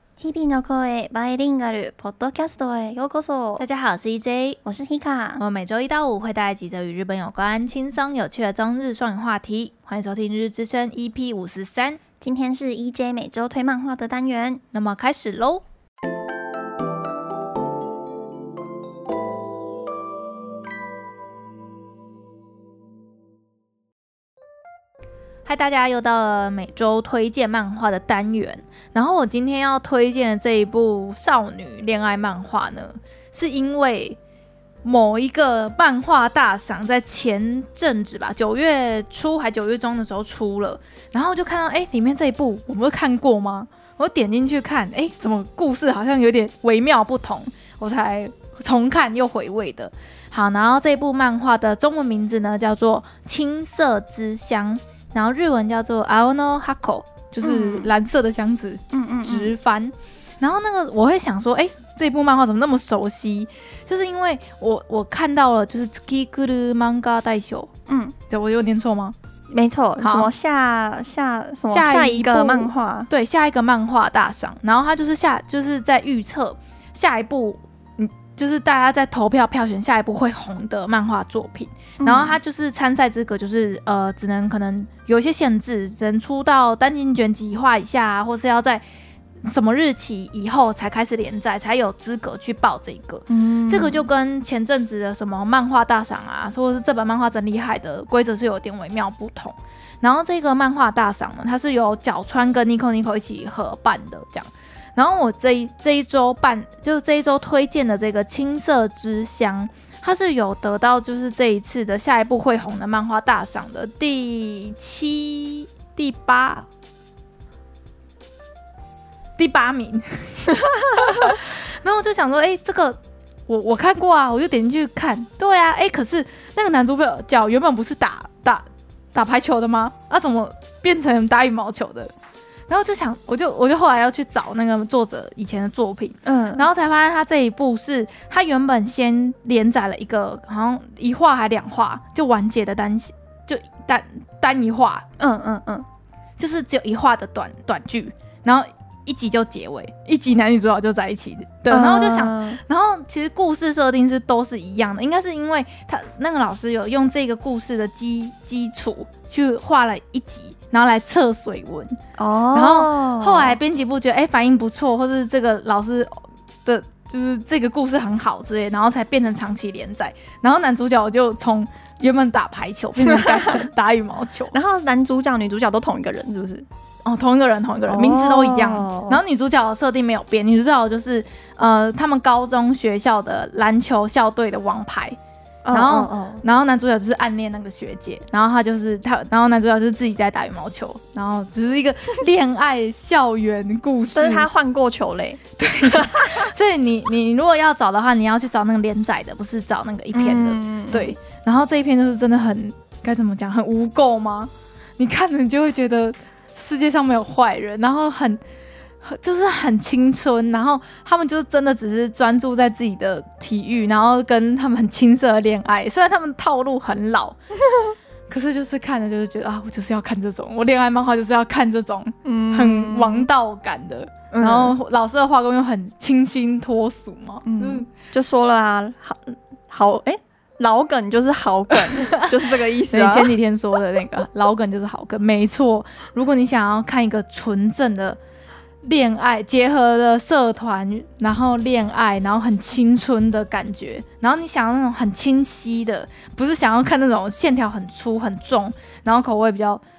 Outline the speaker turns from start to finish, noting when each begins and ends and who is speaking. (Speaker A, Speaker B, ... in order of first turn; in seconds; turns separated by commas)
Speaker A: 0.2-3.6, Speaker B: 3.6-4.6, Speaker A: 4.6-5.4, Speaker B: 5.4-12.0, Speaker A: 12.2-14.6, Speaker B: 14.7-15.6, Speaker B: 25.4-34.2, Speaker B: 34.8-67.7, Speaker A: 57.4-57.9, Speaker A: 58.9-59.5, Speaker A: 67.9-68.1, Speaker B: 68.3-69.1, Speaker A: 69.5-73.1, Speaker B: 70.0-70.3, Speaker B: 71.7-88.8, Speaker A: 82.0-82.4, Speaker B: 89.4-116.7, Speaker A: 93.3-94.1, Speaker B: 119.4-132.1, Speaker B: 132.7-145.0, Speaker A: 136.2-136.7, Speaker A: 145.2-145.8, Speaker B: 146.4-162.0, Speaker A: 151.7-152.6, Speaker A: 162.2-163.6, Speaker B: 162.5-174.5, Speaker A: 173.0-173.4, Speaker A: 174.5-176.7, Speaker B: 177.0-185.2, Speaker A: 177.9-179.2, Speaker A: 185.6-186.4, Speaker B: 185.7-194.5, Speaker A: 194.1-196.5, Speaker B: 195.6-208.4, Speaker A: 200.1-201.1, Speaker B: 209.0-217.4, Speaker B: 218.3-227.9, Speaker A: 222.2-223.3, Speaker A: 224.3-224.7, Speaker A: 227.4-233.3, Speaker B: 232.1-238.2, Speaker B: 238.8-249.8